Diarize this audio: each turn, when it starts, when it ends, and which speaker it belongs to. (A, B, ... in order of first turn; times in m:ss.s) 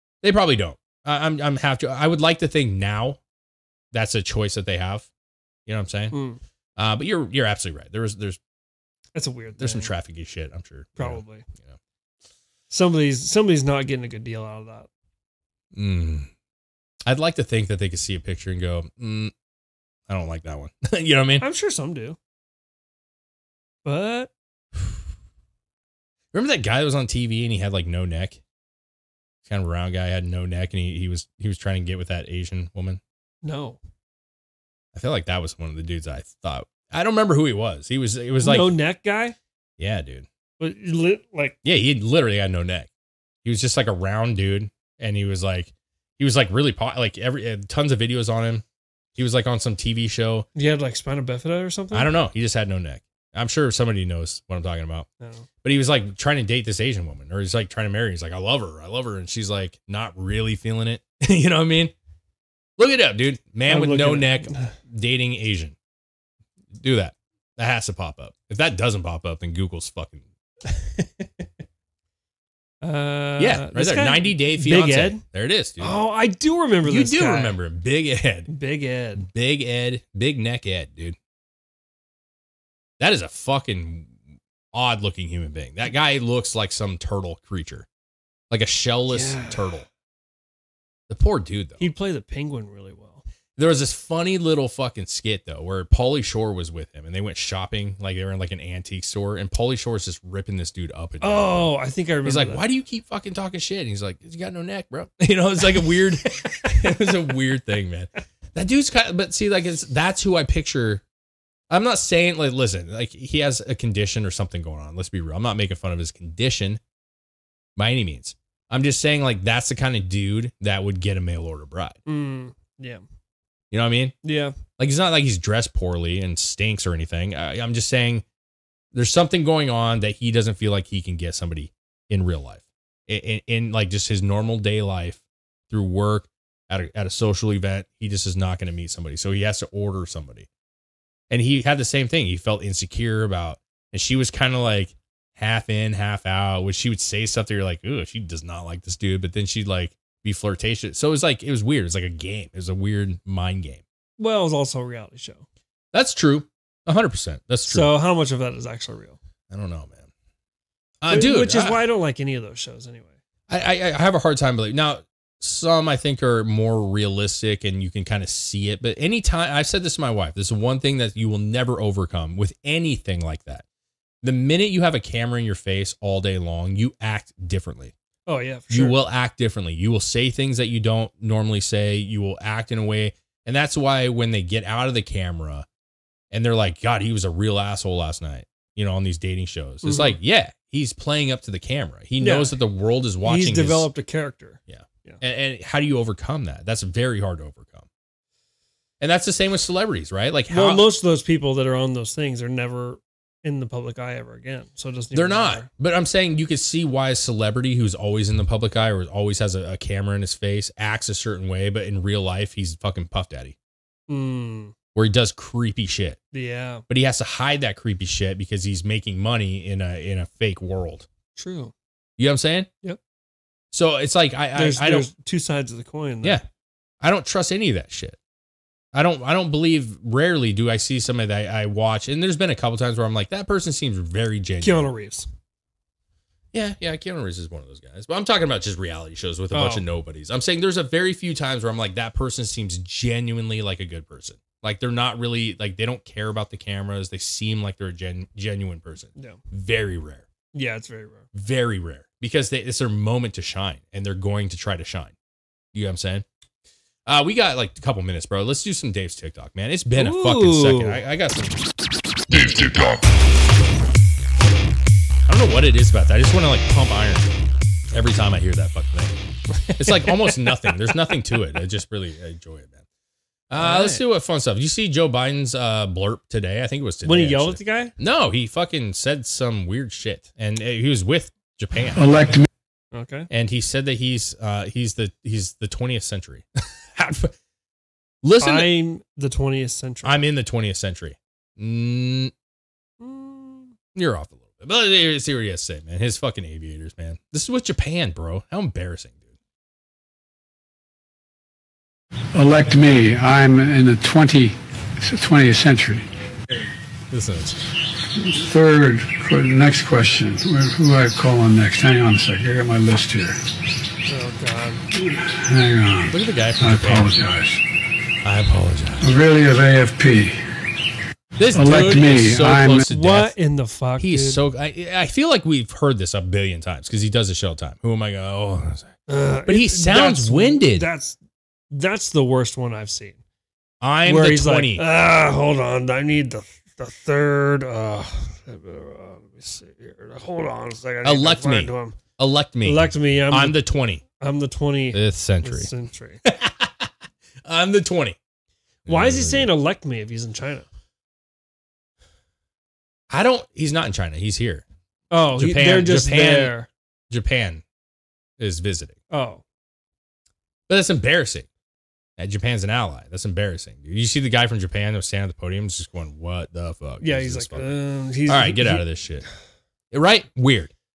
0:00.2-0:03.2 A
0:03.9-0:05.1 A
0:05.6-0:06.1 A
0:06.1-0:06.4 B
0:06.8-0:08.4 A
0:09.1-0:09.9 B
0:09.6-0:11.8 A
0:11.0-0:11.5 B
0:12.7-0:14.9 B
0:15.7-0:16.3 A
0:17.0-0:19.3 A
0:20.1-0:21.4 A
0:21.4-0:22.2 B
0:23.8-0:24.3 B
0:26.3-0:28.4 A
0:29.4-0:33.0 A
0:33.4-0:33.8 B
0:34.9-0:38.7 A
0:38.4-0:39.4 B
0:39.8-0:40.3 A
0:40.6-0:41.6 B
0:41.6-0:42.9 A
0:43.4-0:48.6 A
0:49.2-0:50.5 A
0:50.5-0:52.1 B
0:51.9-0:55.1 A
0:55.2-0:55.5 B
0:55.6-1:01.9 A
1:02.8-1:05.8 A
1:03.7-1:04.8 B
1:06.7-1:10.3 A
1:10.7-1:11.2 B
1:12.8-1:15.2 B
1:13.4-1:16.0 A
1:15.8-1:17.6 B
1:16.8-1:18.5 A
1:18.5-1:19.3 B
1:19.2-1:21.2 A
1:23.0-1:24.2 A
1:24.7-1:27.9 A
1:28.5-1:29.9 A
1:29.1-1:29.7 B
1:31.1-1:31.9 A
1:31.8-1:33.2 B
1:33.6-1:41.7 A
1:41.2-1:42.6 B
1:42.2-1:51.0 A
1:46.8-1:47.1 B
1:51.7-1:56.8 A
1:57.8-2:02.0 A
2:02.0-2:03.0 B
2:03.7-2:04.1 A
2:04.2-2:04.6 B
2:04.8-2:08.2 A
2:08.9-2:20.5 A
2:21.3-2:33.8 A
2:34.2-2:35.4 B
2:35.9-2:37.9 A
2:37.6-2:39.2 B
2:39.5-2:40.1 A
2:41.0-2:41.8 A
2:41.1-2:43.2 B
2:43.5-2:53.6 A
2:54.2-2:57.9 A
2:58.3-2:59.0 B
2:58.7-3:05.6 A
3:06.3-3:13.9 A
3:09.8-3:10.2 B
3:12.2-3:12.5 B
3:13.2-3:15.2 B
3:14.7-3:17.9 A
3:19.0-3:20.8 A
3:20.5-3:25.7 B
3:25.1-3:33.5 A
3:34.1-3:34.7 B
3:34.9-3:36.2 A
3:36.3-3:36.8 B
3:36.9-3:41.1 A
3:41.3-3:41.7 B
3:42.2-3:42.7 A
3:43.7-3:45.1 A
3:44.5-3:46.4 B
3:47.0-3:48.2 A
3:48.9-3:54.9 A
3:54.6-3:55.3 B
3:56.5-4:10.3 A
3:59.5-3:59.8 B
4:09.1-4:09.4 B
4:10.5-4:11.2 B
4:11.3-4:15.1 A
4:15.7-4:16.2 A
4:17.0-4:21.6 A
4:20.0-4:21.0 B
4:25.2-4:27.4 A
4:27.9-4:29.2 A
4:29.5-4:31.0 B
4:29.7-4:32.8 A
4:33.5-4:42.0 A
4:33.6-4:34.0 B
4:37.0-4:37.9 B
4:41.9-4:42.4 C
4:42.9-4:43.3 B
4:43.3-4:47.3 A
4:48.2-4:48.7 A
4:48.4-4:50.2 B
4:50.0-4:52.3 A
4:53.0-4:53.7 B
4:53.9-4:59.2 A
5:02.3-5:06.0 C
5:07.1-5:07.6 A
5:08.2-5:13.4 C
5:14.0-5:14.8 B
5:14.9-5:17.6 C
5:16.1-5:17.1 A
5:18.2-5:19.0 A
5:19.0-5:20.4 C
5:21.4-5:23.3 A
5:21.5-5:22.9 C
5:22.9-5:24.4 B
5:24.0-5:28.9 A
5:29.1-5:31.2 B
5:29.4-5:30.9 A
5:31.7-5:33.2 B
5:33.8-5:34.8 A
5:34.0-5:42.0 B
5:41.0-5:44.0 A
5:42.6-5:43.6 B
5:44.2-5:46.2 B
5:44.9-5:45.7 A
5:46.2-5:46.9 A
5:47.4-5:48.2 A
5:48.8-5:49.5 A
5:48.9-5:50.7 B
5:53.1-5:54.6 A
5:55.1-5:56.7 B
5:55.3-5:56.6 A
5:57.1-5:57.6 A
5:58.4-5:59.0 A
5:59.1-5:59.4 B
6:00.7-6:01.5 A
6:02.2-6:09.2 A
6:07.0-6:08.8 B
6:09.9-6:10.7 A